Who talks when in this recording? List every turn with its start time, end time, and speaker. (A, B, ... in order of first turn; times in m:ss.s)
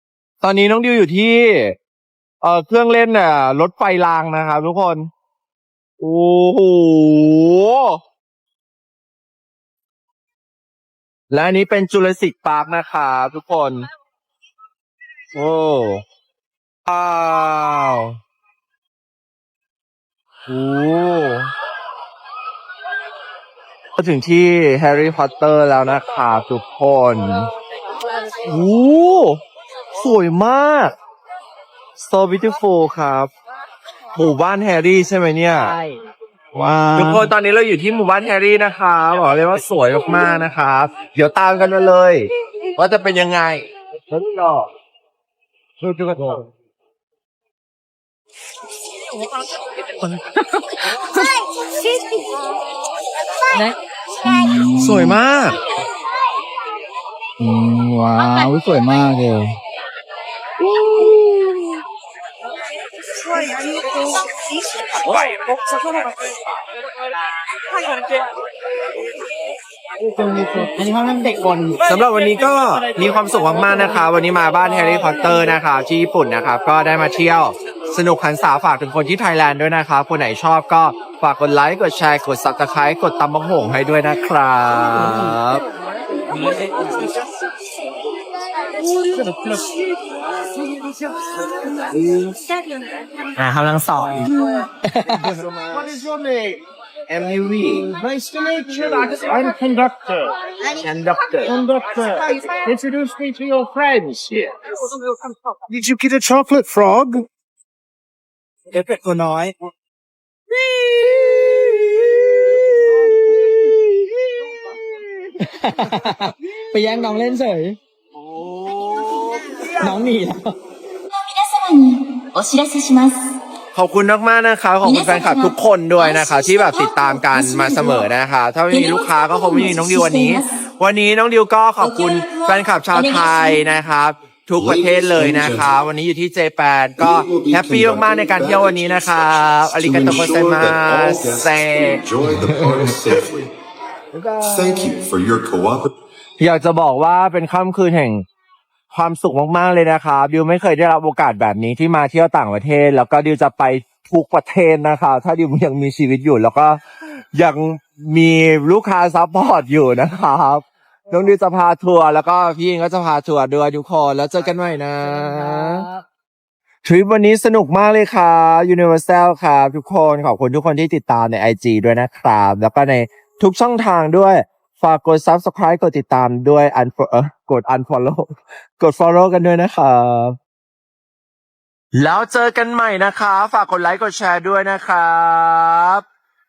0:00.4-0:01.8 A
0:02.4-0:05.1 A
0:06.0-0:08.0 A
0:11.3-0:13.8 A
0:15.3-0:16.0 A
0:16.9-0:18.2 A
0:20.5-0:21.5 A
0:24.0-0:27.5 A
0:28.4-0:29.4 A
0:30.0-0:30.9 A
0:32.0-0:33.3 A
0:34.1-0:35.8 A
0:35.6-0:36.0 B
0:36.7-0:37.2 C
0:36.9-0:43.7 A
0:54.2-0:55.2 C
0:54.7-0:55.6 A
0:57.4-0:59.6 C
1:00.7-1:01.6 A
1:10.0-1:10.8 D
1:10.8-1:11.8 B
1:11.8-1:25.6 A
1:26.4-1:27.0 B
1:29.1-1:29.8 D
1:33.4-1:34.3 B
1:34.8-1:35.4 B
1:35.4-1:36.6 D
1:37.8-1:40.3 D
1:41.4-1:44.4 D
1:45.7-1:47.2 D
1:48.7-1:49.5 B
1:50.6-1:51.6 A
1:55.4-1:57.8 B
1:58.3-1:59.6 A
1:59.6-2:00.5 B
2:01.1-2:03.2 E
2:03.7-2:23.1 A
2:04.8-2:08.0 E
2:08.7-2:10.5 E
2:11.8-2:13.6 E
2:14.6-2:15.7 F
2:17.0-2:23.5 F
2:24.1-2:25.0 A
2:24.4-2:25.9 F
2:26.4-2:28.2 A
2:28.9-2:36.8 A
2:37.3-2:45.9 A
2:45.0-2:45.9 B
2:46.8-3:00.4 A
3:01.9-3:06.0 A